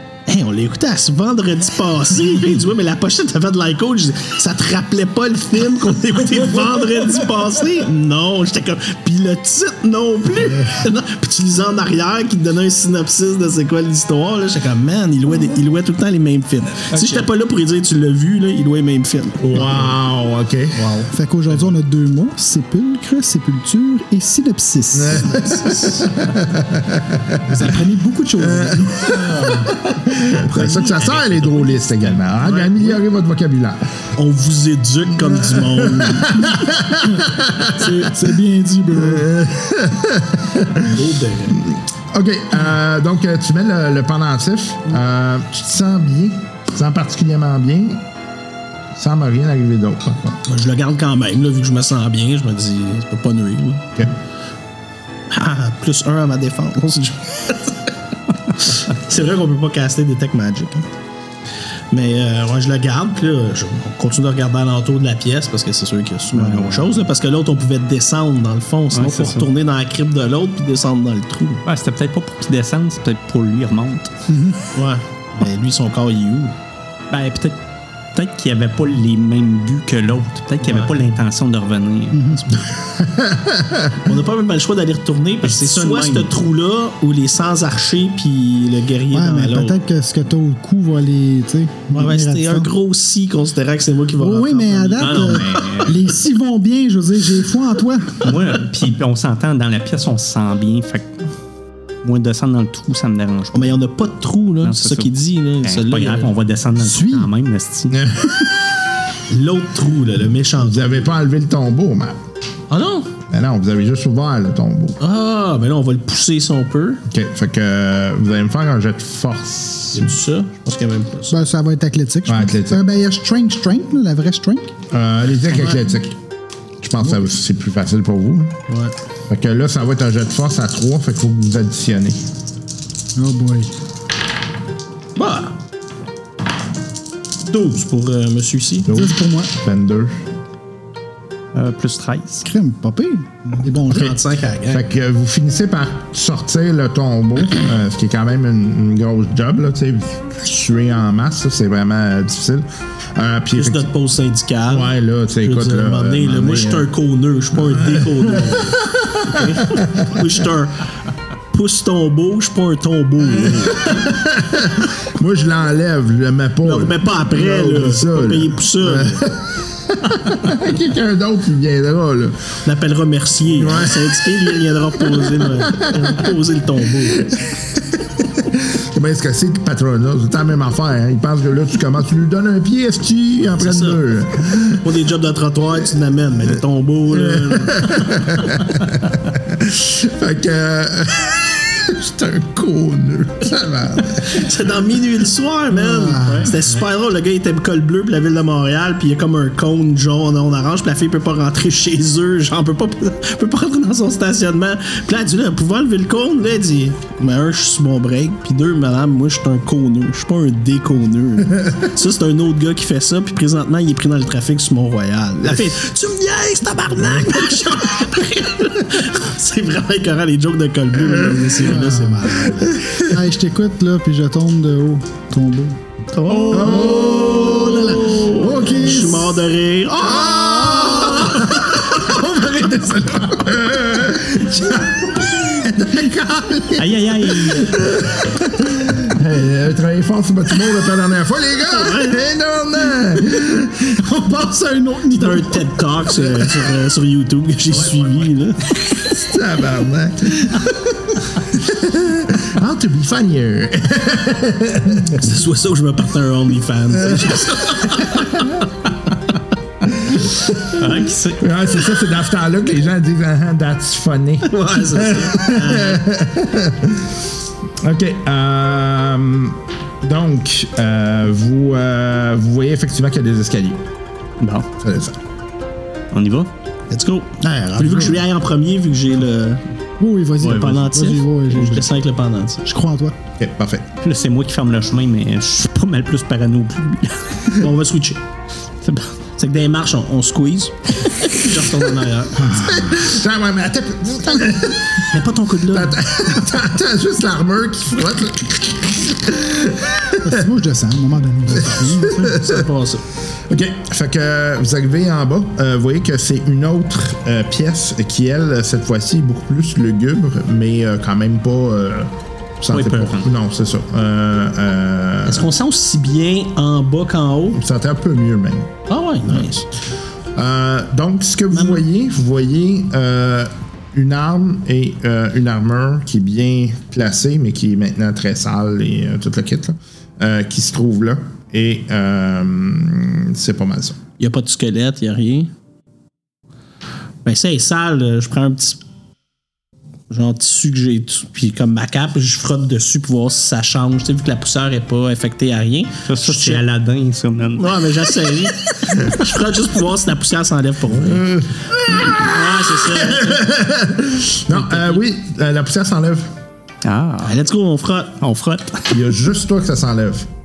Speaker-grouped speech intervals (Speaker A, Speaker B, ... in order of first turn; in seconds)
Speaker A: 0.2-19.9, 20.8-21.1, 25.2-26.1, 30.6-30.9, 32.4-33.0, 34.1-36.5, 40.8-41.6, 50.4-53.9, 55.3-57.8, 58.6-60.9, 61.9-71.6, 74.7-76.5, 80.6-81.0, 84.0-89.8, 91.9-95.8, 103.5-106.3, 109.3-111.1, 112.7-113.1, 115.0-117.0, 119.9-121.3, 128.7-128.9, 135.2-135.5, 137.4-138.9, 143.8-144.8, 153.5-154.9, 155.4-160.9, 161.5-164.0, 166.6-169.2, 172.6-177.3, 183.5-184.0, 184.6-188.4, 194.2-222.8, 226.1-232.1, 241.7-242.1, 245.1-248.6, 255.1-258.6, 264.4-266.0, 276.9-279.6, 280.4-282.6, 287.5-288.2, 289.4-292.5, 295.1-296.0, 301.5-303.0, 315.2-317.6, 318.9-319.7, 321.5-321.8, 334.2-335.5, 337.2-338.8, 340.1-346.6, 347.6-351.4, 351.9-353.5, 354.5-355.0, 357.2-358.1
Speaker B: 19.4-20.8, 24.9-27.6, 28.4-33.8, 35.2-38.1, 38.9-40.9, 41.6-48.0, 48.9-50.4, 83.0-84.0, 107.9-108.7, 110.6-112.2, 113.3-115.0, 117.1-120.1, 122.3-122.8, 124.9-126.1, 126.8-128.5, 129.3-132.2, 138.9-140.2, 144.7-153.9, 154.7-156.9, 157.7-160.2, 163.6-172.6, 173.5-176.3, 177.2-184.9, 187.1-194.5, 222.8-223.1, 226.5-228.7, 230.0-244.1, 249.0-255.3, 257.1-258.2, 260.0-260.8, 261.4-267.1, 267.8-273.8, 274.8-275.2, 283.4-283.9, 292.4-295.1, 295.7-300.4, 301.6-302.6, 303.5-315.5, 317.6-318.7, 320.4-334.0, 351.0-356.3, 358.9-360.3
Speaker C: 21.1-25.5, 27.5-29.6, 37.7-39.3, 74.3-74.6, 82.1-82.5, 89.1-92.7, 94.2-98.3, 106.8-107.3, 121.3-124.7, 127.0-127.3, 133.2-133.7, 138.9-139.5, 142.4-144.2, 195.7-196.5, 221.6-222.4, 222.9-229.3, 244.0-245.7, 277.4-278.2, 280.0-281.9, 282.6-283.1, 292.4-292.8, 300.2-302.2
Speaker D: 30.8-31.9, 66.3-67.1, 68.9-69.5, 71.6-74.1, 77.1-77.6, 78.1-82.6, 85.4-86.3, 95.0-96.0, 98.2-101.3, 102.0-103.8, 104.6-108.1, 141.5-142.5, 196.3-196.6, 236.8-237.8, 247.8-248.3, 260.8-261.4, 274.4-274.7, 276.1-276.5, 284.0-287.5, 288.8-289.1, 312.7-313.3, 346.1-347.9, 356.8-357.4, 358.2-359.0